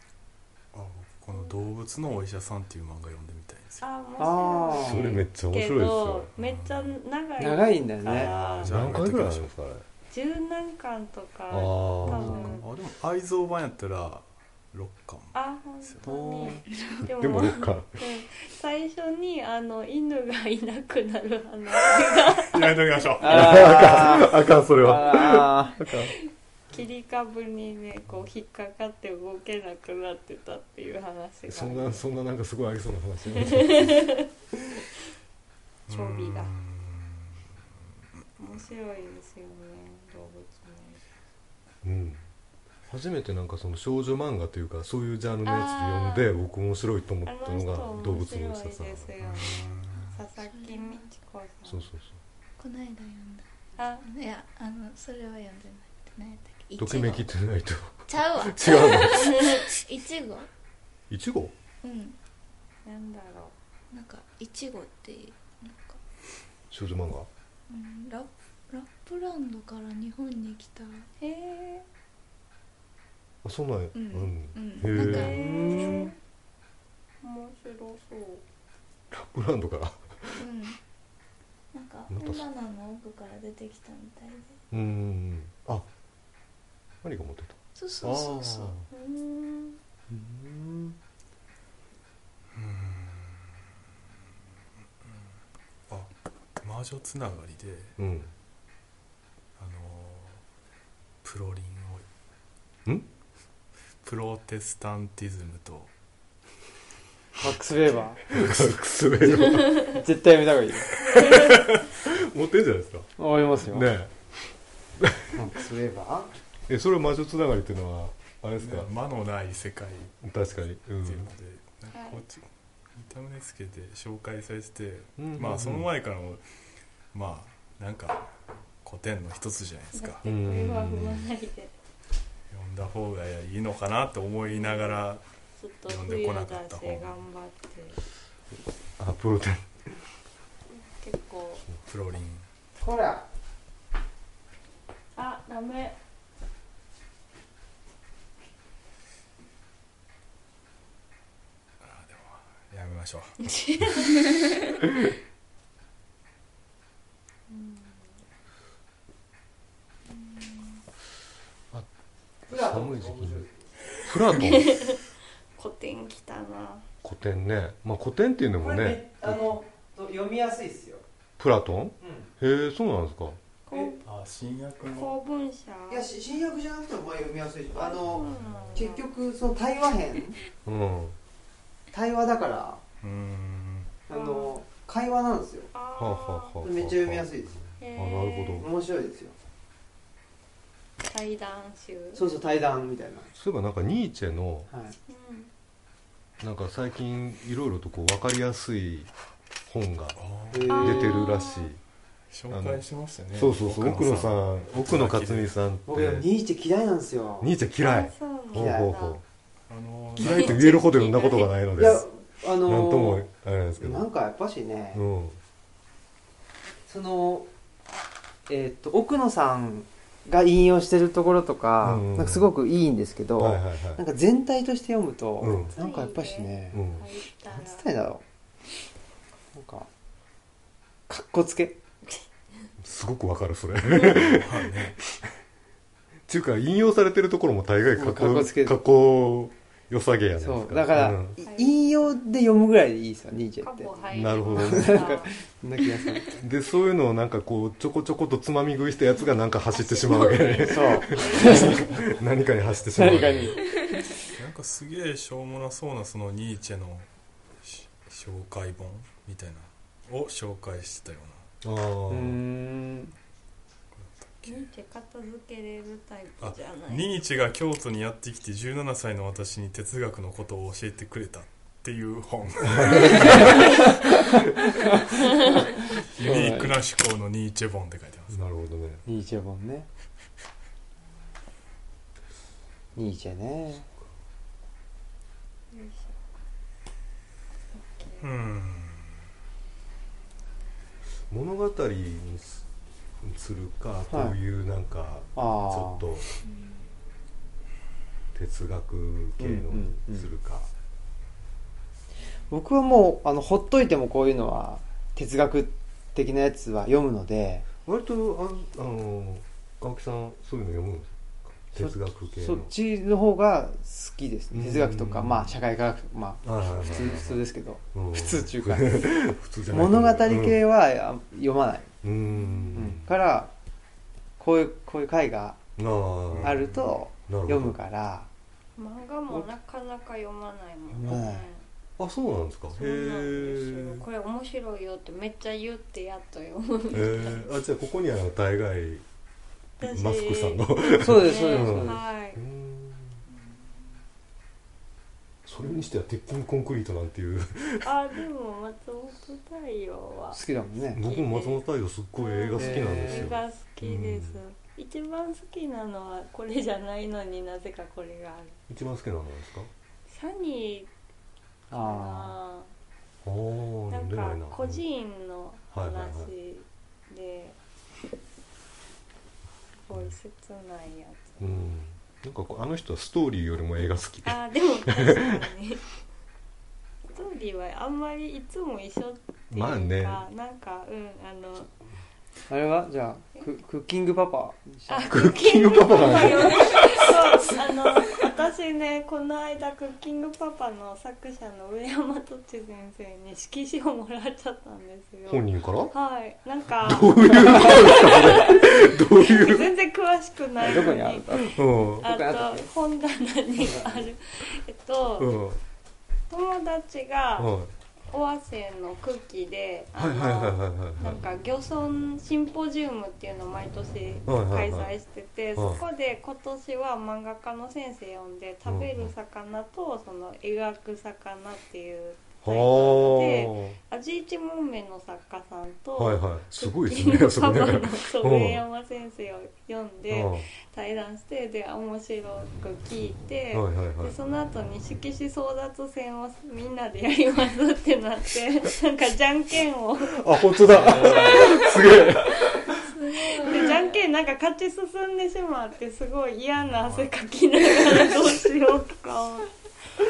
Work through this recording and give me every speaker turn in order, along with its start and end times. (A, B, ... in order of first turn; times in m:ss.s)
0:00.7-0:03.9 A
0:03.8-0:08.9 B
0:04.2-0:05.1 C
0:04.8-0:06.3 D
0:06.4-0:07.0 A
0:07.4-0:08.4 C
0:08.0-0:09.5 A
0:08.6-0:09.8 D
0:10.1-0:12.7 B
0:11.5-0:12.6 D
0:12.0-0:12.6 C
0:12.2-0:16.1 A
0:15.3-0:23.2 B
0:16.0-0:16.6 C
0:16.7-0:17.1 E
0:17.0-0:17.9 D
0:22.3-0:23.9 A
0:23.2-0:25.8 C
0:23.2-0:26.1 D
0:26.7-0:32.0 B
0:31.5-0:34.1 D
0:33.4-0:34.3 B
0:35.9-0:37.5 A
0:35.9-0:36.5 B
0:38.4-0:41.0 B
0:41.8-0:42.2 D
0:42.9-0:49.1 D
0:45.4-0:46.3 B
0:47.2-0:51.8 B
0:49.2-0:50.1 A
0:50.4-0:51.0 E
0:51.6-0:52.2 D
0:52.6-0:53.5 E
0:53.8-0:54.0 B
0:54.0-0:57.3 E
0:56.8-0:59.6 D
0:58.1-1:00.5 E
0:59.1-0:59.7 B
1:01.1-1:01.5 D
1:01.8-1:02.2 E
1:02.8-1:03.5 B
1:03.9-1:06.0 E
1:06.7-1:07.3 D
1:07.7-1:11.1 E
1:11.2-1:11.9 B
1:13.4-1:15.9 D
1:13.9-1:16.0 E
1:14.9-1:16.1 B
1:15.2-1:16.1 C
1:17.2-1:18.4 B
1:19.1-1:20.4 D
1:20.4-1:20.8 E
1:21.7-1:24.6 E
1:22.1-1:22.4 D
1:24.7-1:25.9 D
1:27.0-1:28.8 D
1:27.8-1:28.8 E
1:28.9-1:29.8 B
1:30.1-1:31.0 C
1:32.5-1:33.6 A
1:35.0-1:35.3 A
1:35.9-1:38.0 A
1:38.0-1:38.3 D
1:39.6-1:40.4 A
1:41.2-1:42.0 A
1:44.0-1:45.9 A
1:47.4-1:48.2 C
1:48.3-1:50.0 D
1:48.3-1:48.7 A
1:49.2-1:50.9 C
1:51.0-1:51.6 B
1:51.1-1:51.8 A
1:51.1-1:53.1 D
1:53.2-1:53.9 C
1:53.6-1:54.1 D
1:55.0-1:55.5 D
1:55.3-1:56.3 C
1:56.7-1:58.9 D
1:58.6-2:00.2 A
2:00.2-2:01.3 D
2:01.0-2:06.4 A
2:01.9-2:02.2 B
2:05.2-2:05.9 D
2:07.1-2:10.2 A
2:09.9-2:11.7 B
2:10.2-2:11.3 D
2:12.5-2:15.2 A
2:14.4-2:15.0 B
2:15.6-2:18.0 B
2:15.9-2:17.2 A
2:19.0-2:19.8 D
2:20.7-2:21.6 B
2:21.8-2:22.5 A
2:22.8-2:23.3 C
2:25.1-2:26.0 B
2:31.8-2:33.9 A
2:33.4-2:34.2 B
2:37.5-2:38.1 B
2:42.4-2:43.4 D
2:42.5-2:43.6 C
2:44.0-2:44.8 D
2:44.3-2:45.0 B
2:45.6-2:46.8 B
2:47.0-2:49.0 D
2:48.6-2:51.0 C
2:49.3-2:49.6 B
2:51.4-2:53.4 D
2:52.0-2:52.3 C
2:53.7-2:54.0 B
2:54.0-2:55.2 A
2:54.9-2:56.1 B
2:55.9-3:00.4 C
2:57.7-2:59.1 B
2:58.0-2:58.9 A
3:00.6-3:01.2 D
3:01.9-3:02.8 C
3:03.0-3:04.0 A
3:04.1-3:05.7 C
3:04.1-3:04.6 B
3:05.7-3:06.6 B
3:06.0-3:08.7 D
3:06.6-3:07.6 C
3:07.8-3:08.7 B
3:08.6-3:09.4 C
3:11.1-3:12.2 B
3:12.1-3:13.3 C
3:13.4-3:14.7 D
3:14.7-3:15.0 C
3:15.1-3:15.5 B
3:16.4-3:19.1 D
3:19.7-3:20.2 D
3:20.2-3:20.9 A
3:20.5-3:21.2 C
3:20.7-3:21.7 B
3:20.7-3:21.8 D
3:22.3-3:25.5 A
3:22.5-3:26.3 D
3:25.9-3:27.5 C
3:27.4-3:29.2 D
3:27.8-3:29.2 B
3:28.5-3:29.0 C
3:29.7-3:30.8 A
3:30.2-3:31.5 B
3:30.2-3:32.0 D
3:31.8-3:33.3 C
3:32.6-3:34.1 D
3:33.8-3:35.0 C
3:34.9-3:35.4 D
3:36.9-3:37.5 C
3:38.5-3:46.8 C
3:41.8-3:42.5 D
3:43.4-3:44.0 D
3:45.4-3:45.8 D
3:45.7-3:47.9 B
3:46.7-3:47.1 D
3:47.5-3:48.2 C
3:49.5-3:49.9 C
3:51.1-3:51.8 C
3:52.8-3:55.2 D
3:54.0-3:55.0 A
3:56.3-4:01.4 D
3:58.0-3:58.8 C
4:00.4-4:06.3 C
4:01.4-4:01.8 B
4:03.6-4:05.3 B
4:04.1-4:05.2 D
4:06.3-4:13.6 D
4:09.7-4:12.2 B
4:10.6-4:11.9 C
4:12.9-4:13.7 C
4:14.3-4:17.1 A
4:17.6-4:21.5 A
4:21.6-4:22.4 D
4:22.1-4:23.1 C
4:23.9-4:24.7 A
4:24.4-4:27.1 B
4:26.4-4:35.0 A
4:32.7-4:33.5 D
4:33.0-4:36.8 C
4:35.8-4:38.4 A
4:38.3-4:39.0 D
4:39.0-4:39.9 C
4:43.0-4:43.8 C
4:45.7-4:46.1 B
4:47.7-4:48.3 B
4:48.2-4:49.1 A
4:51.3-4:52.6 D
4:53.2-4:56.3 D
4:54.1-4:54.4 C
4:55.4-4:56.0 C
4:58.3-5:00.7 D
4:59.4-5:00.3 C
5:02.5-5:07.6 C
5:07.8-5:12.7 D
5:11.7-5:19.2 C
5:14.5-5:15.6 D
5:16.4-5:20.6 D
5:19.7-5:21.9 C
5:22.0-5:23.1 D
5:22.3-5:22.8 E
5:22.7-5:23.5 C
5:24.4-5:25.6 C
5:25.8-5:26.7 D
5:26.3-5:26.8 A
5:26.4-5:28.3 C
5:27.3-5:27.8 D
5:28.8-5:31.6 B
5:30.9-5:31.5 C
5:32.0-5:34.0 D
5:32.7-5:37.5 B
5:36.9-5:39.0 D
5:39.8-5:42.4 B
5:39.8-5:43.2 D
5:41.0-5:42.0 C
5:45.4-5:47.9 D
5:47.8-5:50.4 B
5:50.3-5:51.0 C
5:50.9-5:54.4 D
5:51.0-5:51.6 B
5:52.2-5:58.6 B
5:52.6-5:53.4 C
5:58.7-5:59.7 D
6:00.1-6:00.9 B
6:01.7-6:02.4 C
6:01.7-6:02.7 B
6:03.2-6:04.8 D
6:03.9-6:07.6 B
6:05.7-6:06.3 D
6:09.9-6:11.5 B
6:11.4-6:15.4 D
6:14.2-6:15.9 B
6:17.1-6:21.7 B
6:19.5-6:20.2 D
6:22.5-6:25.3 C
6:24.9-6:45.3 B
6:25.1-6:27.4 D
6:35.3-6:35.9 D
6:36.8-6:39.7 D
6:40.6-6:42.7 C
6:41.4-6:42.1 D
6:43.6-6:44.1 C
6:45.2-6:45.6 D
6:46.3-6:47.5 B
6:47.4-6:47.7 D
6:48.1-7:20.2 B
6:49.9-6:51.2 D
6:54.3-6:54.9 D
6:55.6-6:55.8 D
6:58.6-6:59.1 D
7:02.4-7:03.8 D
7:05.9-7:08.6 D
7:10.1-7:10.5 D
7:13.5-7:14.1 D
7:20.0-7:22.7 D
7:20.8-7:21.6 B
7:20.9-7:21.2 C
7:22.7-7:24.0 E
7:23.4-7:29.5 B
7:26.6-7:27.1 A